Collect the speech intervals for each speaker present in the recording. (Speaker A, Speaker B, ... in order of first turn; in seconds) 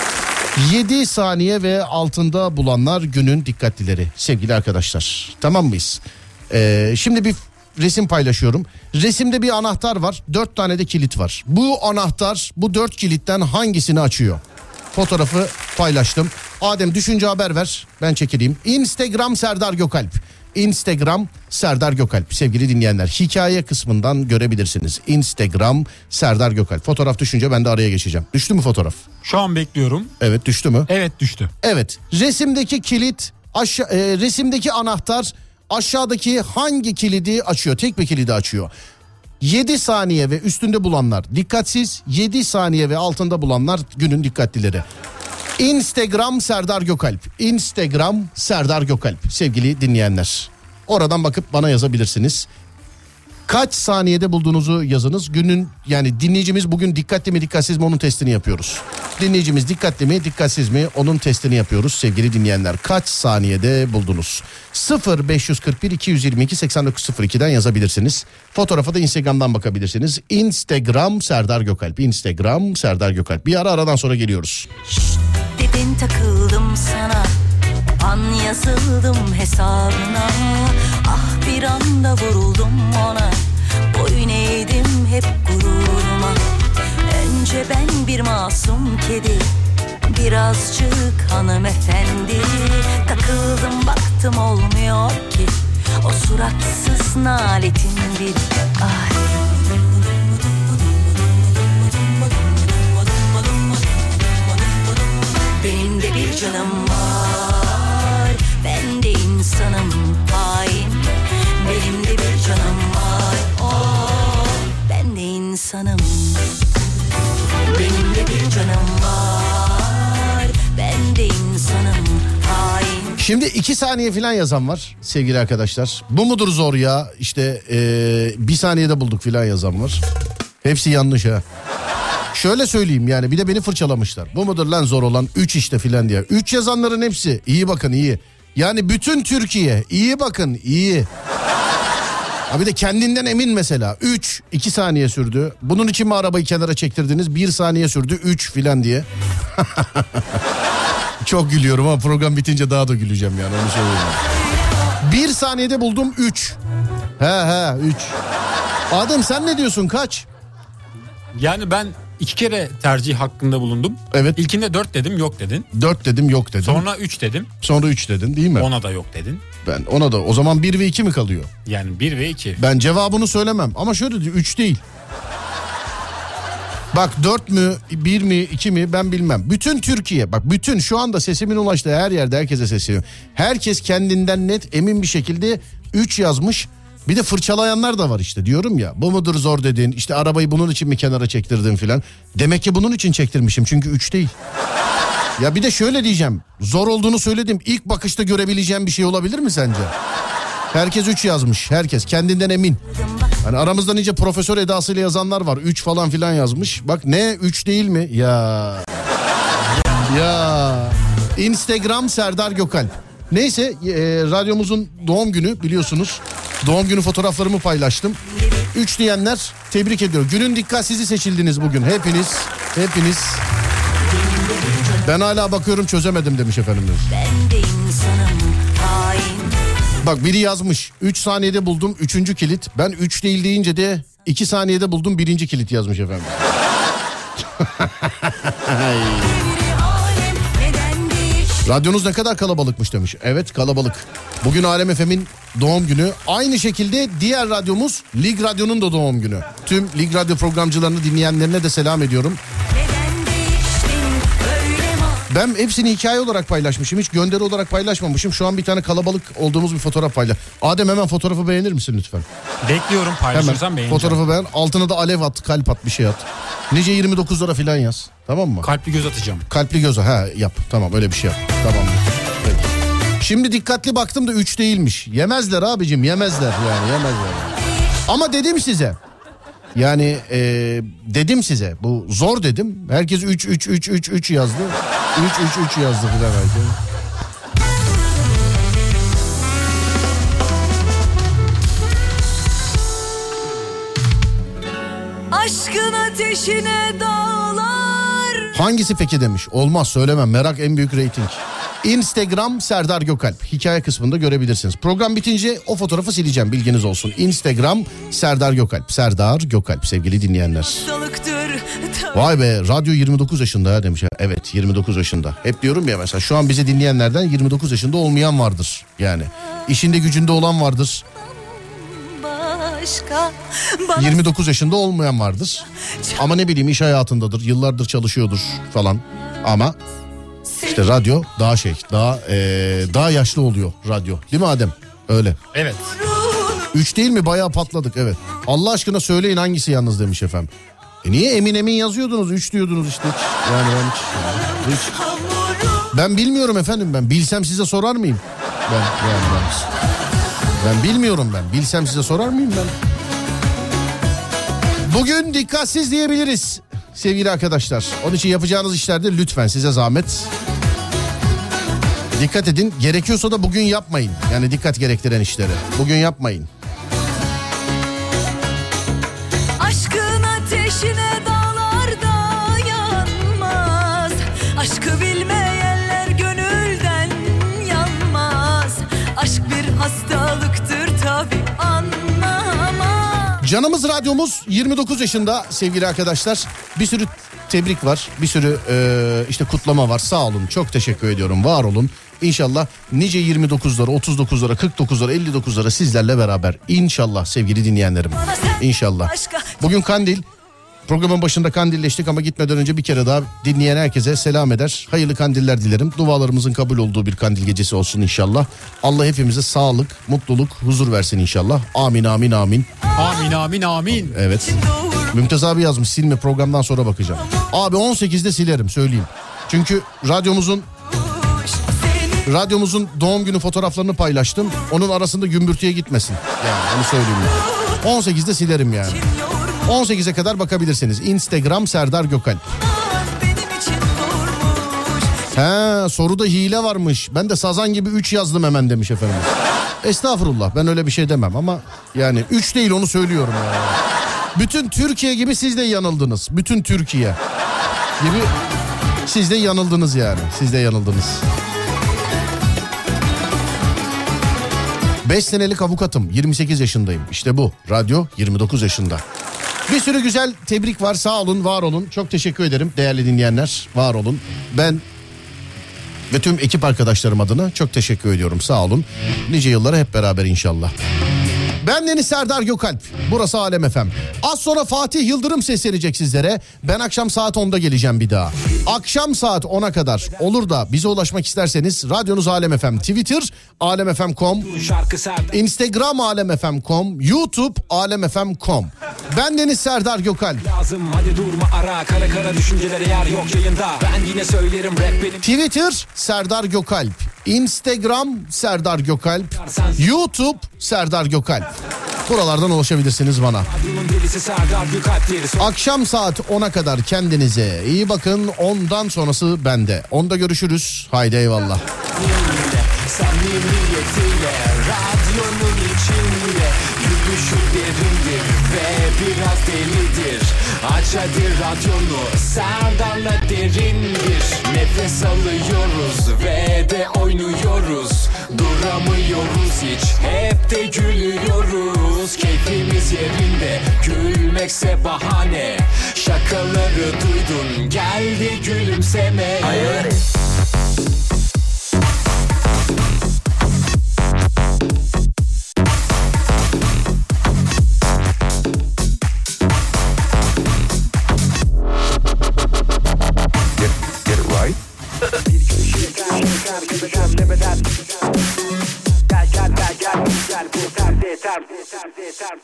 Speaker A: 0.6-14.4, 14.9-29.0, 30.2-30.9, 31.6-38.7, 39.4-44.9, 45.6-52.5, 53.5-74.7, 123.2-130.0, 130.6-131.4, 132.3-141.1, 142.5-150.4, 151.2-154.2, 155.0-156.6, 157.2-158.2, 158.9-160.3, 164.1-164.4, 165.7-166.9, 167.6-168.7, 169.6-171.5, 172.6-174.8, 176.9-194.3, 195.4-199.9, 200.7-202.8, 203.4-208.9, 210.0-218.2, 218.7-223.4, 225.0-227.1, 230.0-236.5, 237.4-239.5, 241.7-252.4, 255.3-262.3, 263.3-268.7, 269.5-279.0, 279.8-286.8, 298.5-310.9, 312.1-321.0, 324.0-325.6, 326.2-329.8, 330.6-335.4, 336.7-340.5, 341.0-345.0, 345.9-349.6, 350.6-352.7, 354.9-360.3, 362.1-366.5, 383.4-400.3, 400.9-412.7, 413.9-420.7, 422.2-429.1, 429.6-432.4, 435.3-443.8, 444.3-447.2, 448.0-448.3, 449.1-451.2, 455.0-459.0, 459.7-464.8, 466.1-470.7, 471.6-484.5, 485.3-490.5, 495.2-501.5, 502.1-503.5, 505.4-511.6
Speaker B: 29.2-30.1, 30.9-31.5, 161.3-165.7, 166.6-167.5, 168.6-169.4, 171.7-172.6, 262.6-264.3, 268.6-269.5, 335.5-335.9, 413.0-414.2
Speaker C: 74.9-77.3, 78.0-83.4, 83.9-86.4, 87.1-89.5, 90.0-99.2, 105.6-111.1, 111.6-116.5, 117.7-123.2, 227.1-229.5, 239.3-241.6, 252.7-255.2, 295.3-298.5, 310.6-312.3, 321.2-324.2, 330.6-330.9, 336.1-336.6, 344.5-345.9, 369.6-383.4, 398.2-399.6, 414.5-415.1, 421.1-422.2, 428.9-429.8, 432.6-435.2
Speaker D: 484.4-485.4, 490.4-495.2, 499.4-499.8, 503.5-505.5, 511.9-540.0, 555.5-557.5, 559.3-562.1